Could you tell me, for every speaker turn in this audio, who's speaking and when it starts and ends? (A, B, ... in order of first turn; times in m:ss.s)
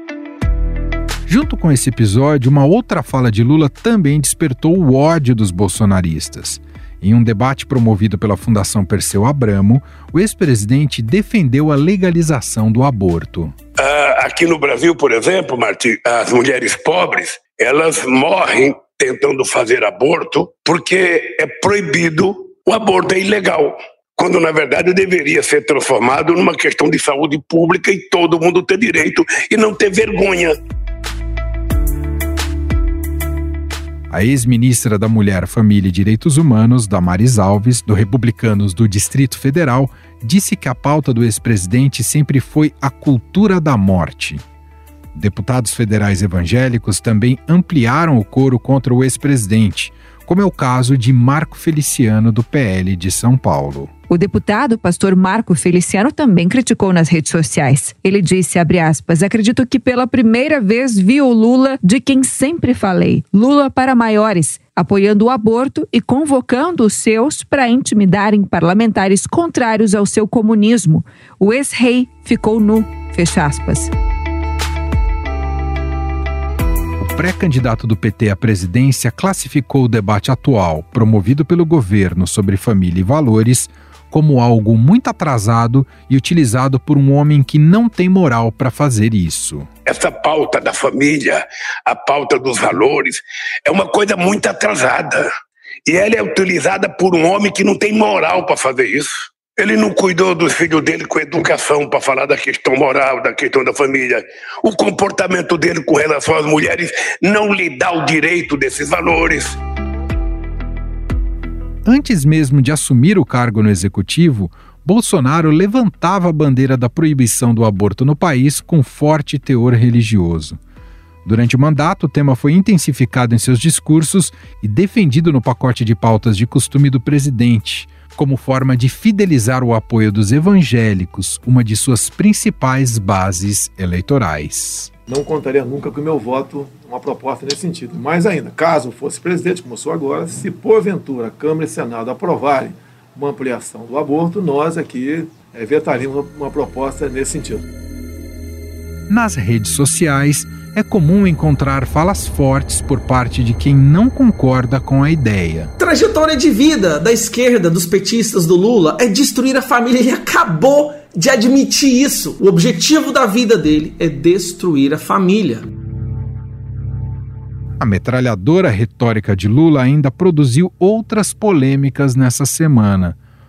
0:01.3-0:13.5 A
0:13.8-0:30.5 B
0:34.1-0:44.4 A
0:45.1-0:53.9 A
0:54.1-1:13.9 C
1:17.0-1:29.7 A
1:29.8-1:35.3 B
1:35.8-1:49.6 B
1:51.8-2:00.6 A
2:01.2-2:14.9 A
2:15.1-2:27.6 D
2:29.1-2:35.7 A
2:35.8-2:45.7 E
2:47.8-2:53.2 A